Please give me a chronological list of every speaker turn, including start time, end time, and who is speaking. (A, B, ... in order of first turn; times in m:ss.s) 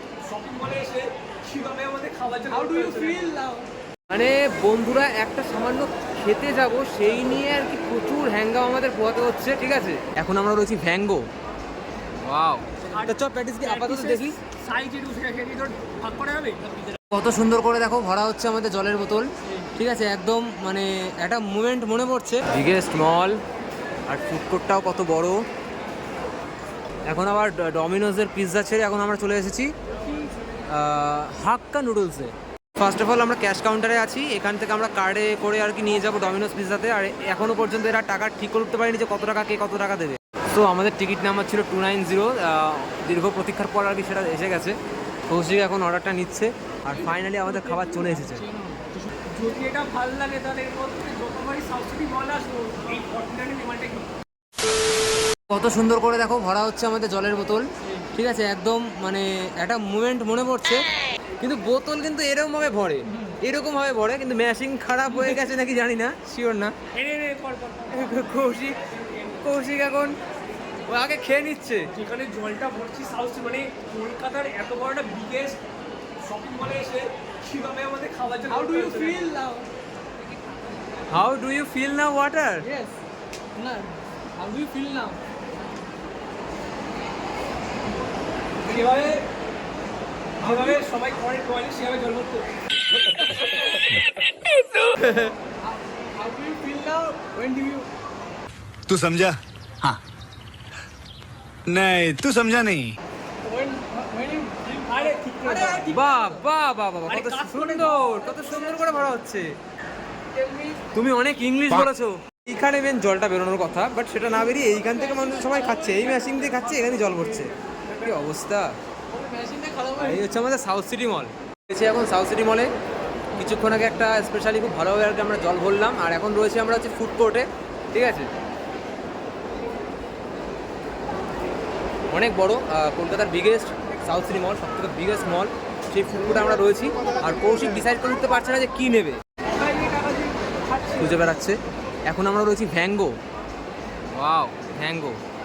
0:00.2-0:03.3 A
0:02.5-0:03.7 B
0:04.1-0:11.2 C
0:12.2-0:14.4 C
0:12.9-0:16.7 A
0:17.1-0:23.4 C
0:24.1-0:25.4 C
0:27.1-0:29.7 C
0:30.7-0:44.8 C
0:45.3-0:48.4 C
0:46.9-0:49.1 B
0:49.3-0:54.1 A
0:55.5-1:00.9 C
1:01.4-1:06.7 C
1:06.9-1:08.2 A
1:07.9-1:08.8 C
1:09.0-1:09.4 A
1:09.4-1:10.2 C
1:10.8-1:11.9 C
1:11.9-1:15.6 A
1:16.2-1:19.3 A
1:18.5-1:19.7 B
1:21.1-1:22.7 C
1:22.6-1:23.0 B
1:23.5-1:25.2 B
1:28.6-1:29.2 B
1:28.6-1:29.2 A
1:30.4-1:32.5 A
1:35.0-1:37.9 B
1:38.9-1:40.0 D
1:41.6-1:43.0 D
1:43.4-1:46.4 B
1:44.8-1:46.0 A
1:45.9-1:49.5 C
1:47.1-1:48.0 A
1:48.5-1:48.8 B
1:50.3-1:50.8 B
1:50.9-1:58.7 C
1:54.7-1:56.7 B
1:59.1-2:00.3 B
2:00.0-2:02.7 C
2:03.4-2:08.3 C
2:12.1-2:19.2 C
2:19.4-2:21.3 A
2:21.0-2:23.1 C
2:24.1-2:25.2 C